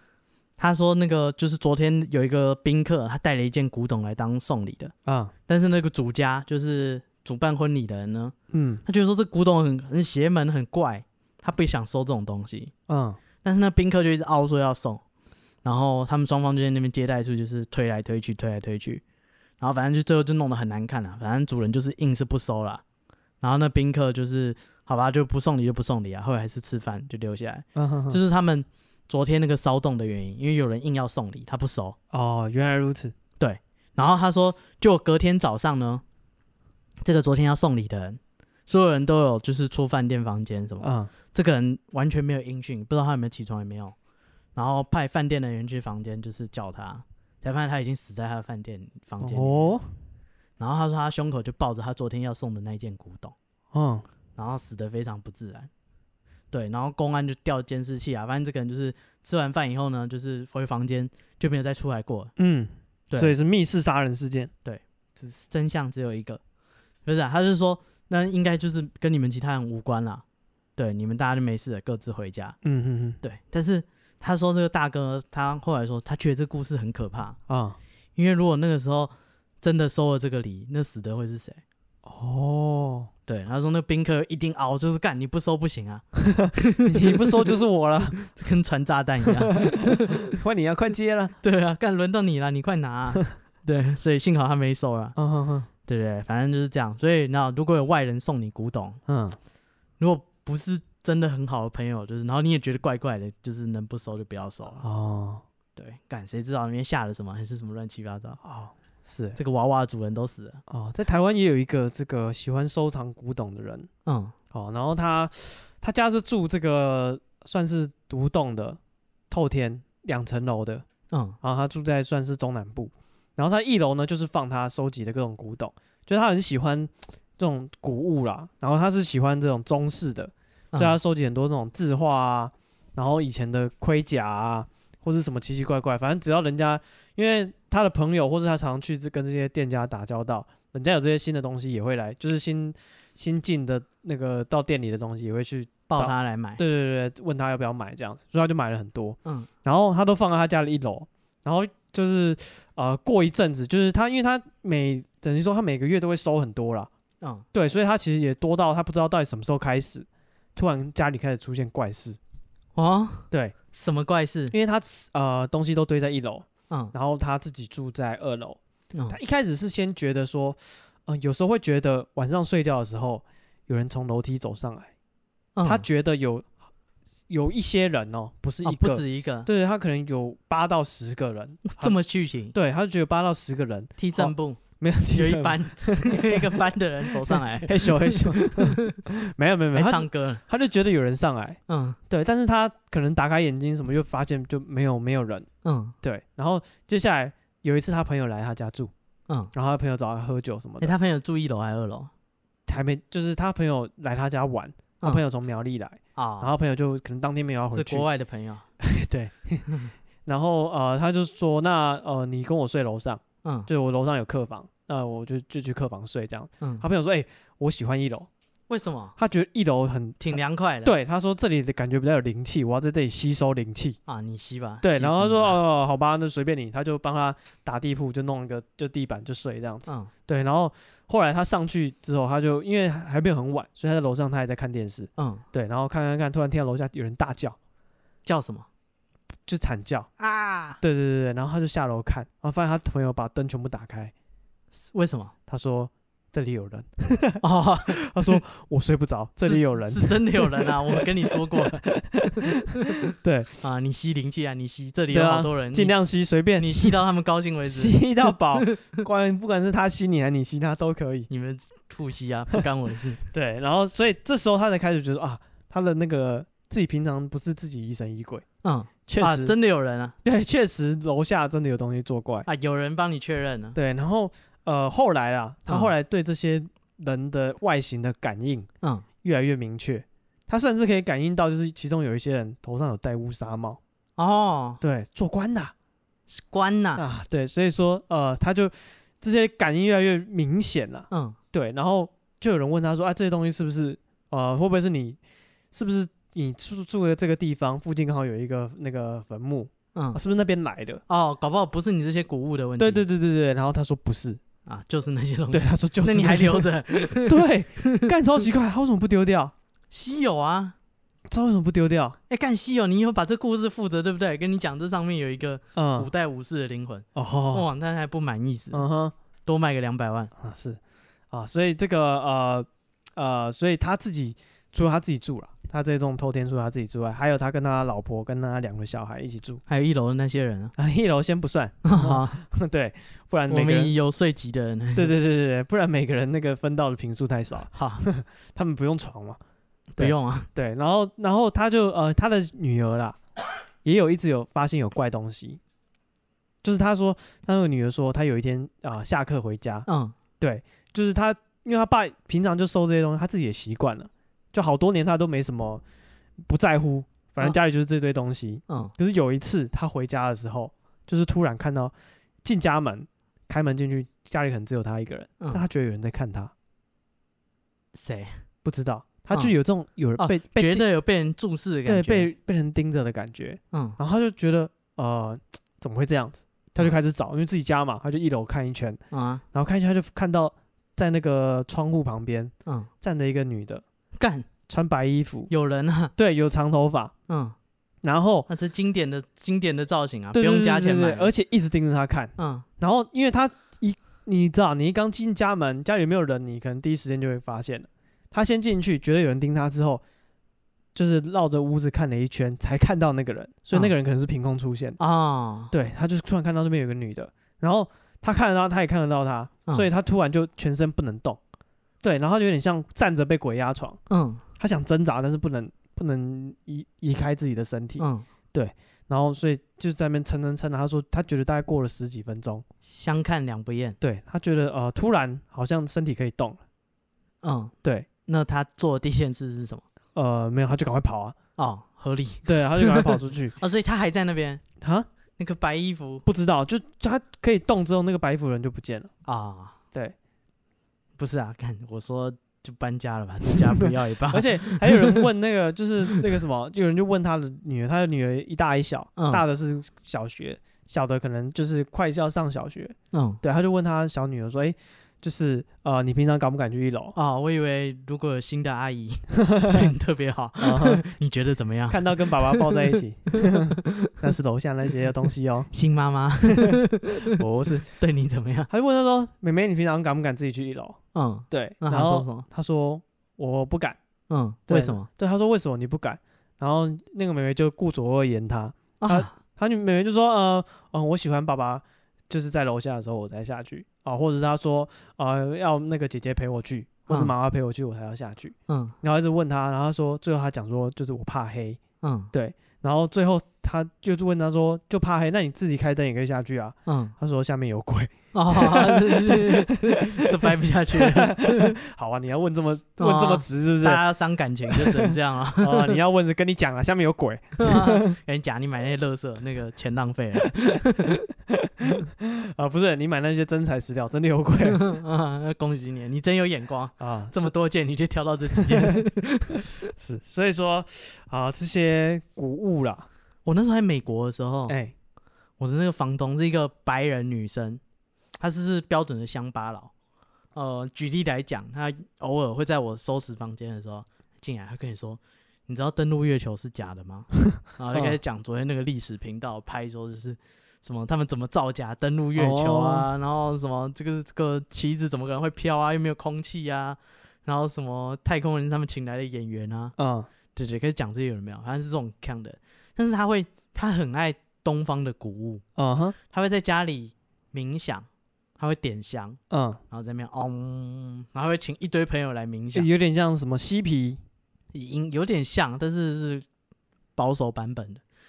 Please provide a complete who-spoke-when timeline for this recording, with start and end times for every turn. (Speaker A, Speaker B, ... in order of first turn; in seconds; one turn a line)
Speaker A: 0.6-4.9
Speaker B: 5.0-5.3
Speaker A: 5.5-8.3
Speaker B: 8.5-8.8
Speaker A: 8.8-12.7
Speaker B: 12.9-13.2
Speaker A: 13.4-15.0
Speaker A: 15.6-19.0
Speaker A: 19.6-22.8
Speaker A: 23.4-31.9
Speaker B: 27.7-28.2
Speaker B: 32.1-33.1
Speaker A: 33.4-36.0
Speaker A: 37.0-43.9
Speaker B: 40.8-41.1
Speaker A: 44.5-49.7
Speaker B: 49.2-49.9
Speaker A: 50.6-53.3
Speaker B: 53.7-54.1
Speaker A: 54.4-55.7
Speaker A: 56.5-62.3
Speaker B: 62.4-64.5
Speaker A: 64.6-66.4
Speaker A: 67.0-70.2
Speaker A: 70.8-72.5
Speaker B: 72.6-73.2
Speaker A: 73.2-77.4
Speaker B: 77.5-77.8
Speaker A: 78.2-81.6
Speaker B: 82.0-83.1
Speaker A: 83.3-87.5
Speaker B: 86.3-88.2
Speaker A: 88.1-90.3
Speaker B: 89.3-91.3
Speaker A: 91.4-95.1
Speaker B: 95.2-95.7
Speaker A: 95.9-99.0
Speaker B: 99.1-99.4
Speaker A: 100.0-104.8
Speaker B: 104.8-105.4
Speaker A: 105.8-108.4
Speaker B: 108.4-109.4
Speaker A: 109.3-110.6
Speaker B: 110.7-113.9
Speaker A: 114.0-114.3
Speaker B: 114.5-118.8
Speaker B: 119.3-120.8
Speaker A: 121.1-121.4
Speaker B: 121.4-156.9
Speaker A: 130.7-131.0
Speaker A: 145.9-146.6
Speaker A: 157.2-157.4
Speaker B: 157.5-162.2
Speaker A: 162.7-164.5
Speaker B: 164.5-174.9
Speaker A: 168.9-169.2
Speaker A: 175.5-175.8
Speaker B: 175.6-176.5
Speaker B: 177.3-182.0
Speaker A: 178.6-179.5
Speaker A: 181.7-182.5
Speaker B: 182.5-195.5
Speaker A: 184.0-189.0
Speaker A: 189.7-190.4
Speaker A: 191.7-192.0
Speaker A: 195.6-195.9
Speaker B: 196.0-198.9
Speaker B: 199.5-200.9
Speaker A: 200.8-202.1
Speaker B: 202.7-208.1
Speaker A: 206.1-206.5
Speaker A: 207.7-208.7
Speaker B: 208.8-209.7
Speaker A: 209.7-209.9
Speaker B: 210.2-218.3
Speaker A: 213.4-213.7
Speaker A: 218.7-219.2
Speaker B: 219.2-224.0
Speaker A: 220.2-220.9
Speaker A: 224.1-225.6
Speaker B: 224.8-237.6
Speaker A: 229.9-230.1
Speaker A: 235.2-235.4
Speaker A: 238.2-238.7
Speaker B: 239.5-240.1
Speaker A: 240.2-240.8
Speaker B: 240.8-244.1
Speaker A: 244.7-245.3
Speaker B: 245.5-253.6
Speaker A: 247.4-248.4
Speaker A: 249.4-251.8
Speaker A: 253.6-255.9
Speaker B: 255.1-256.9
Speaker A: 256.6-258.9
Speaker B: 257.6-261.3
Speaker A: 261.3-263.2
Speaker B: 263.3-268.4
Speaker A: 268.6-270.1
Speaker B: 269.1-269.5
Speaker B: 270.2-272.5
Speaker A: 272.4-273.8
Speaker B: 273.7-278.7
Speaker A: 275.7-275.9
Speaker B: 279.2-283.8
Speaker A: 284.2-284.8
Speaker B: 284.8-285.7
Speaker A: 286.3-287.0
Speaker B: 286.9-295.2
Speaker A: 291.1-291.4
Speaker B: 295.7-301.0
Speaker A: 299.9-300.2
Speaker A: 301.1-303.1
Speaker B: 302.8-304.4
Speaker A: 304.6-308.1
Speaker B: 305.5-309.5
Speaker A: 309.9-310.8
Speaker B: 311.3-312.2
Speaker A: 312.3-318.8
Speaker B: 315.7-316.1
Speaker B: 317.1-317.7
Speaker B: 318.7-319.1
Speaker A: 319.4-320.3
Speaker B: 320.4-320.8
Speaker B: 321.3-329.6
Speaker A: 329.7-330.7
Speaker B: 330.8-333.9
Speaker A: 331.8-332.4
Speaker A: 333.5-335.2
Speaker B: 334.9-339.4
Speaker A: 337.7-338.0
Speaker B: 339.9-343.2
Speaker A: 340.0-340.5
Speaker B: 343.8-345.6
Speaker B: 346.6-349.9
Speaker A: 349.9-350.1
Speaker B: 350.4-355.8
Speaker B: 356.5-361.9
Speaker A: 358.7-358.9
Speaker B: 362.4-366.5
Speaker A: 367.9-368.4
Speaker B: 368.6-370.8
Speaker A: 370.2-372.3
Speaker B: 371.9-379.0
Speaker A: 373.7-374.0
Speaker A: 379.1-379.4
Speaker B: 379.5-383.8
Speaker A: 384.1-384.5
Speaker B: 384.7-385.5
Speaker A: 385.5-386.1
Speaker B: 386.1-387.1
Speaker A: 387.3-387.6
Speaker B: 388.0-388.5
Speaker A: 388.5-391.3
Speaker B: 390.3-400.0
Speaker A: 392.4-392.6
Speaker B: 400.9-405.0
Speaker A: 405.0-405.7
Speaker B: 405.7-411.4
Speaker B: 412.0-414.0
Speaker A: 414.1-414.4
Speaker B: 414.6-422.6
Speaker A: 418.0-418.2
Speaker A: 422.8-424.0
Speaker B: 424.0-426.6
Speaker A: 427.4-427.7
Speaker A: 428.2-429.8
Speaker B: 430.1-431.4
Speaker A: 431.6-434.6
Speaker B: 432.4-433.6
Speaker B: 434.8-435.1
Speaker A: 435.4-436.2
Speaker B: 436.2-439.1
Speaker A: 439.2-439.8
Speaker A: 441.2-445.2
Speaker B: 443.8-457.1
Speaker A: 449.2-449.4
Speaker A: 453.1-453.4
Speaker A: 457.1-464.1
Speaker B: 459.4-459.9
Speaker B: 460.6-461.0
Speaker B: 461.9-465.7
Speaker A: 465.7-468.7
Speaker B: 466.4-467.9
Speaker B: 468.7-471.0
Speaker A: 471.1-472.4
Speaker B: 471.5-474.0
Speaker A: 474.3-475.1
Speaker B: 474.7-491.8
Speaker A: 479.0-479.3
Speaker A: 488.7-489.0
Speaker A: 492.0-492.3
Speaker B: 492.3-500.4
Speaker A: 496.9-497.1
Speaker A: 498.3-501.7
Speaker B: 500.9-504.0
Speaker A: 503.0-506.0
Speaker B: 504.7-508.1
Speaker A: 507.6-511.2
Speaker B: 511.5-514.8
Speaker A: 514.6-519.7
Speaker B: 517.0-517.5
Speaker B: 518.5-519.0
Speaker B: 519.9-523.1
Speaker A: 523.4-524.7
Speaker B: 524.7-524.9
Speaker A: 525.6-527.8
Speaker A: 528.4-529.9
Speaker A: 530.5-549.9
Speaker B: 542.4-543.1
Speaker B: 550.0-550.3
Speaker A: 550.5-555.6
Speaker B: 555.8-556.1
Speaker A: 556.2-558.1
Speaker A: 558.6-559.4
Speaker B: 559.5-559.8
Speaker A: 559.9-562.9
Speaker B: 562.7-564.2
Speaker A: 564.7-566.5
Speaker A: 567.1-568.0